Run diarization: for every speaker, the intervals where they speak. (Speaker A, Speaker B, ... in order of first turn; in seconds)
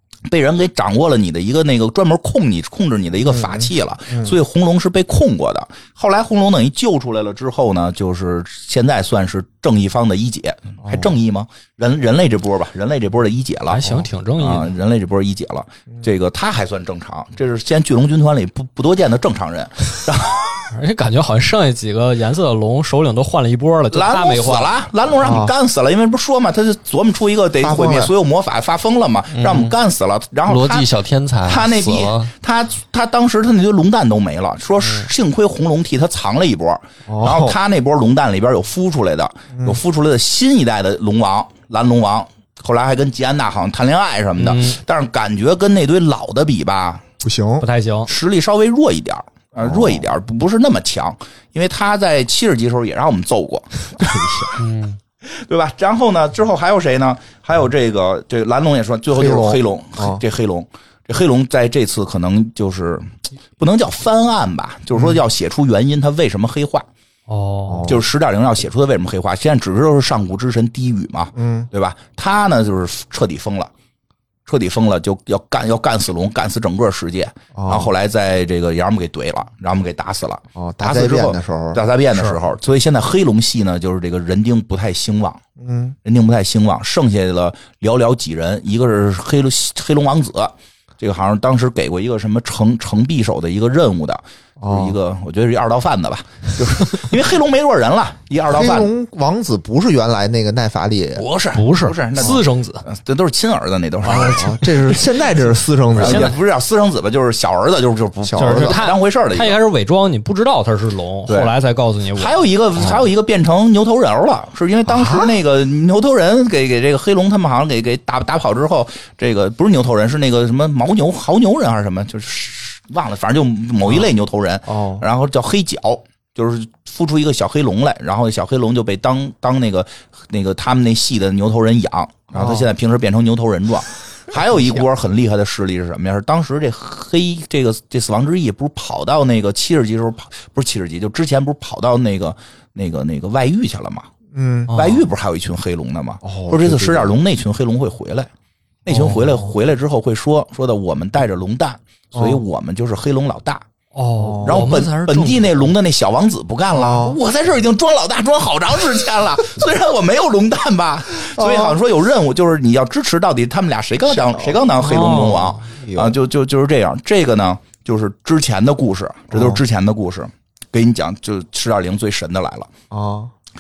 Speaker A: 0.3-20.6, 23.9-30.9, 31.5-47.0, 48.1-54.2, 55.2-66.9, 67.8-73.7, 74.5-85.4, 86.0-98.9, 101.2-105.3, 105.9-109.6, 111.3-111.5, 112.2-144.1, 144.7-148.3, 148.8-153.6, 154.4-172.7
Speaker B: 3.2-4.4, 10.8-11.1, 25.2-25.5, 27.6-28.1, 37.1-37.6, 39.5-39.8, 47.2-47.7, 49.6-50.1, 54.0-54.5, 59.1-60.2, 64.9-65.2, 67.7-68.0, 71.3-71.7, 77.5-77.9, 80.6-81.8, 85.6-86.0, 94.6-95.0, 98.5-101.3, 104.0-106.3, 108.2-108.9, 114.9-115.3, 123.8-124.1, 124.7-125.0, 132.3-132.7, 134.5-134.8, 144.3-144.8, 146.2-147.2, 148.9-149.2, 152.1-152.4, 154.2-154.7, 156.7-157.2, 161.3-161.8, 164.1-166.2, 169.3-169.6, 172.9-173.3
Speaker C: 13.7-14.7, 20.7-24.8, 47.6-48.1, 67.3-67.9, 101.5-102.8, 106.0-106.3, 108.4-112.4, 144.7-145.0, 153.9-155.7, 164.8-165.7
Speaker D: 29.3-29.8, 30.5-32.3, 54.6-55.0